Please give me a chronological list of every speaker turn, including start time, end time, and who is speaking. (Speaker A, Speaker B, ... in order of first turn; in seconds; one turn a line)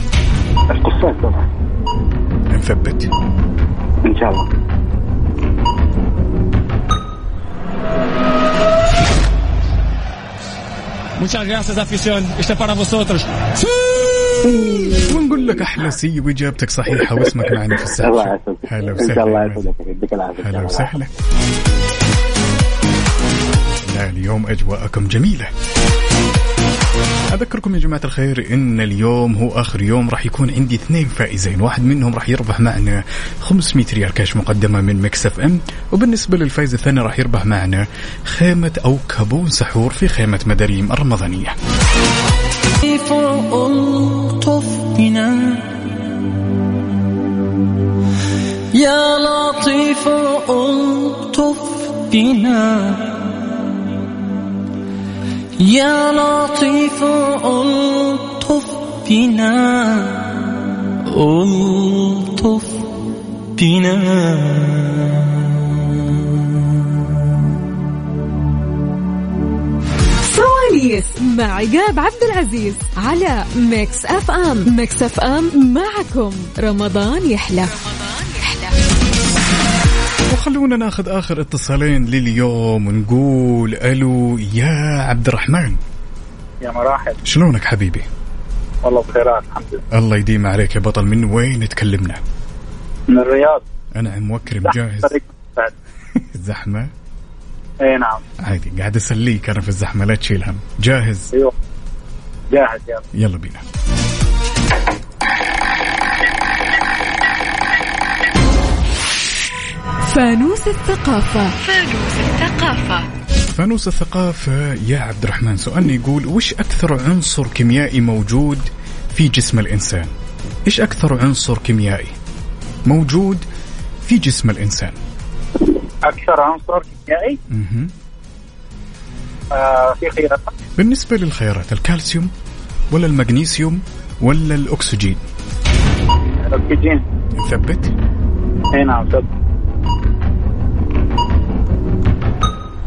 Speaker A: 0.7-1.4
Speaker B: 2.5-3.1
Speaker A: 4.1-4.4
Speaker C: 11.2-13.2
Speaker B: 14.8-19.7
Speaker A: 18.0-21.0
Speaker B: 20.4-21.1
Speaker B: 23.9-25.5
Speaker B: 27.3-41.5
Speaker D: 42.9-45.6
Speaker D: 48.8-53.1
Speaker D: 55.6-60.2
Speaker D: 61.1-62.7
Speaker D: 63.6-65.0
Speaker E: 70.2-77.7
Speaker F: 77.6-78.8
Speaker B: 80.3-85.8
Speaker G: 86.6-87.2
Speaker B: 87.2-88.1
Speaker G: 88.8-89.8
Speaker B: 89.9-92.2
Speaker G: 93.1-93.6
Speaker B: 94.0-95.2
Speaker G: 94.6-95.7
Speaker B: 96.2-96.9
Speaker G: 97.8-98.2
Speaker B: 98.4-101.3
Speaker G: 102.5-103.0
Speaker B: 103.1-103.6
Speaker E: 110.0-111.5
Speaker F: 111.6-113.0
Speaker B: 113.5-120.1
Speaker B: 120.7-122.2
Speaker B: 122.9-123.5
Speaker B: 124.0-125.0
Speaker G: 126.0-127.4
Speaker B: 127.5-127.9
Speaker G: 129.5-130.5
Speaker B: 130.8-132.3
Speaker B: 132.9-135.2
Speaker G: 136.4-137.0
Speaker B: 137.4-137.9
Speaker G: 138.7-139.2